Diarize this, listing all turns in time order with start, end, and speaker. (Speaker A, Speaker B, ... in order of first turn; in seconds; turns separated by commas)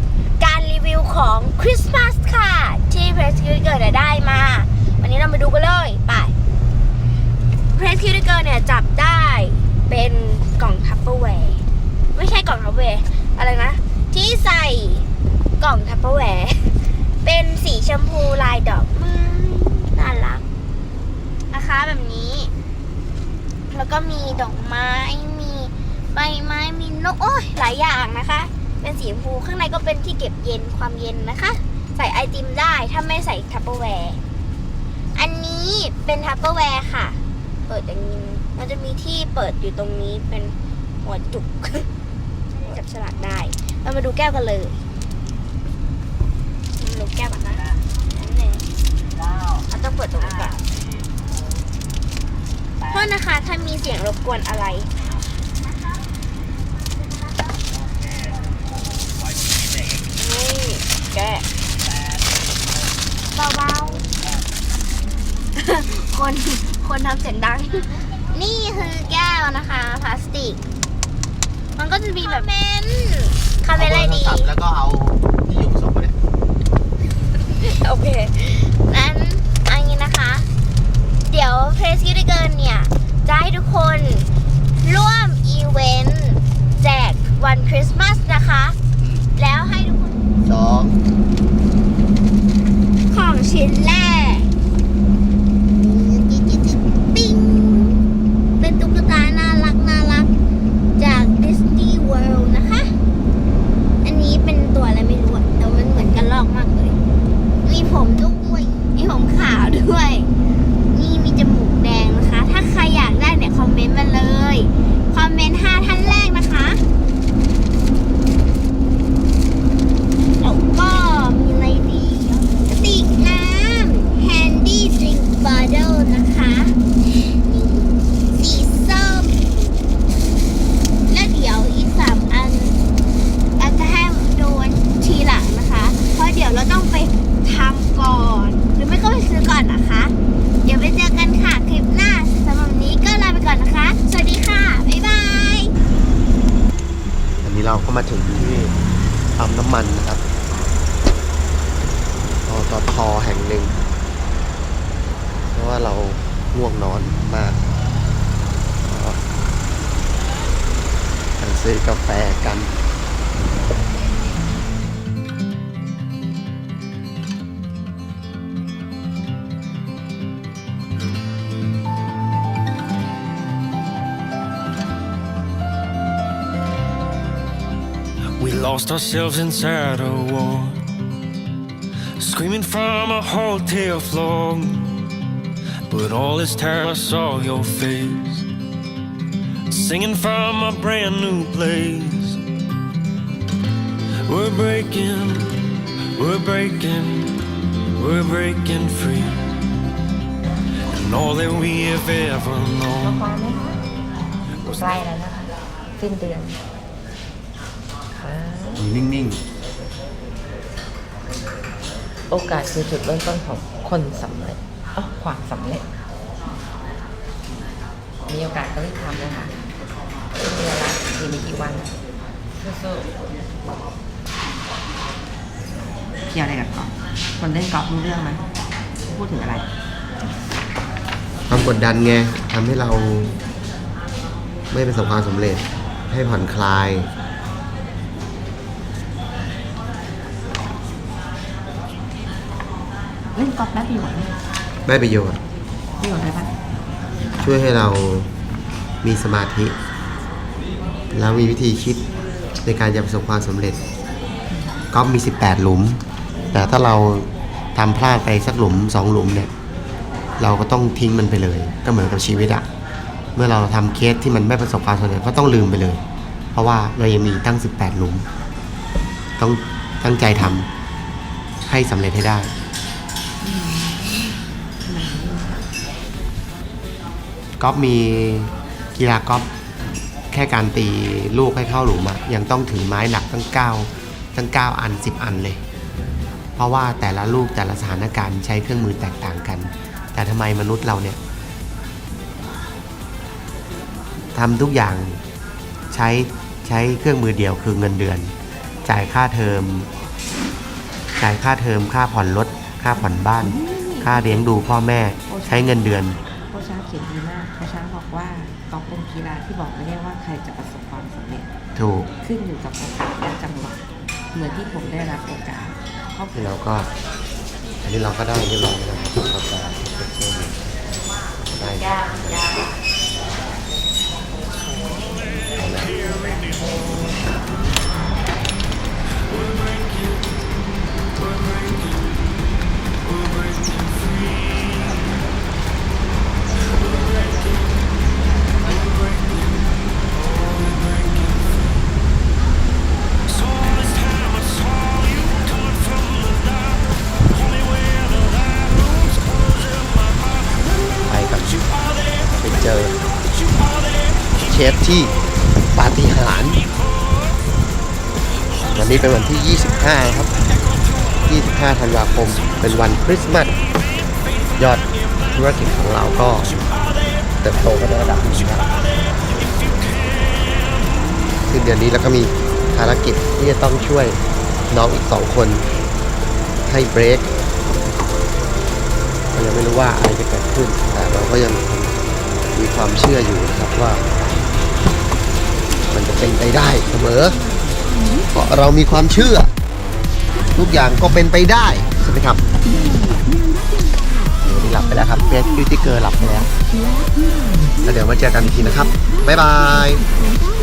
Speaker A: 0.4-6.3, Speaker A: 7.8-11.6, Speaker A: 12.1-15.1, Speaker A: 15.6-20.4, Speaker A: 21.5-22.5, Speaker A: 23.7-34.2, Speaker A: 35.2-41.9, Speaker A: 42.5-44.8, Speaker A: 46.8-48.7, Speaker A: 49.7-50.6, Speaker A: 52.9-54.9, Speaker A: 60.1-61.5, Speaker A: 63.3-64.0, Speaker A: 65.5-70.6, Speaker A: 71.8-74.5, Speaker B: 73.7-76.2, Speaker A: 77.4-80.5, Speaker A: 81.3-84.3, Speaker A: 84.8-88.8, Speaker A: 89.3-90.2, Speaker B: 90.4-91.0, Speaker A: 93.1-94.5, Speaker A: 95.8-98.0, Speaker A: 98.6-100.3, Speaker A: 101.0-102.9, Speaker A: 104.0-107.0, Speaker A: 107.6-110.3, Speaker A: 110.9-116.8, Speaker A: 120.4-126.8, Speaker A: 127.3-129.6, Speaker A: 131.1-132.8, Speaker A: 133.6-145.7, Speaker B: 147.4-148.8, Speaker B: 149.4-150.2, Speaker B: 152.4-153.7, Speaker B: 155.5-157.6, Speaker B: 158.8-159.2, Speaker B: 161.4-162.7, Speaker C: 178.4-180.9, Speaker C: 182.2-185.0, Speaker C: 185.9-188.5, Speaker C: 189.7-192.4, Speaker C: 194.3-197.4, Speaker C: 197.9-199.5, Speaker C: 200.9-203.3, Speaker D: 203.0-203.8, Speaker D: 204.7-206.6, Speaker D: 208.2-208.9, Speaker B: 208.8-209.4, Speaker D: 212.3-215.8, Speaker D: 218.3-219.5, Speaker D: 220.4-221.9, Speaker D: 222.6-223.1, Speaker D: 226.3-228.4, Speaker D: 229.1-229.7, Speaker B: 231.5-233.4, Speaker B: 234.7-237.1, Speaker D: 243.3-244.3, Speaker B: 244.9-245.4, Speaker D: 246.0-246.5, Speaker B: 247.4-248.3, Speaker B: 249.0-249.8, Speaker B: 251.1-252.1, Speaker B: 252.6-253.8, Speaker B: 254.9-256.0, Speaker B: 256.5-259.5, Speaker B: 260.4-262.7, Speaker B: 263.4-266.0, Speaker B: 266.5-268.3, Speaker B: 269.4-270.7, Speaker B: 271.7-272.5, Speaker D: 273.4-275.6, Speaker B: 277.6-279.5, Speaker B: 280.3-285.6, Speaker B: 286.6-291.2, Speaker B: 294.3-295.2, Speaker B: 295.9-298.3, Speaker B: 298.9-299.9, Speaker B: 301.2-306.2, Speaker D: 303.0-304.5, Speaker D: 305.3-305.9, Speaker D: 306.5-311.5, Speaker B: 311.8-312.1, Speaker D: 312.2-313.8, Speaker D: 314.3-316.4, Speaker B: 316.3-316.9, Speaker B: 317.8-320.6, Speaker B: 321.6-322.5, Speaker B: 325.6-326.1, Speaker C: 329.3-330.3, Speaker C: 331.2-332.4, Speaker C: 333.0-335.1, Speaker C: 336.8-337.6, Speaker C: 338.6-341.6, Speaker C: 343.3-346.8, Speaker C: 347.7-348.4, Speaker B: 351.1-351.6, Speaker B: 352.2-353.0, Speaker B: 354.4-355.2, Speaker B: 355.7-356.6, Speaker B: 358.7-360.3, Speaker B: 361.3-363.6, Speaker B: 364.6-366.6, Speaker B: 367.4-368.7, Speaker B: 371.5-374.2, Speaker B: 374.7-375.6, Speaker B: 376.7-377.3, Speaker B: 379.3-382.0, Speaker B: 382.5-384.1, Speaker B: 385.9-387.4, Speaker B: 388.3-389.5, Speaker B: 390.5-392.4, Speaker B: 394.4-396.5, Speaker B: 397.8-400.1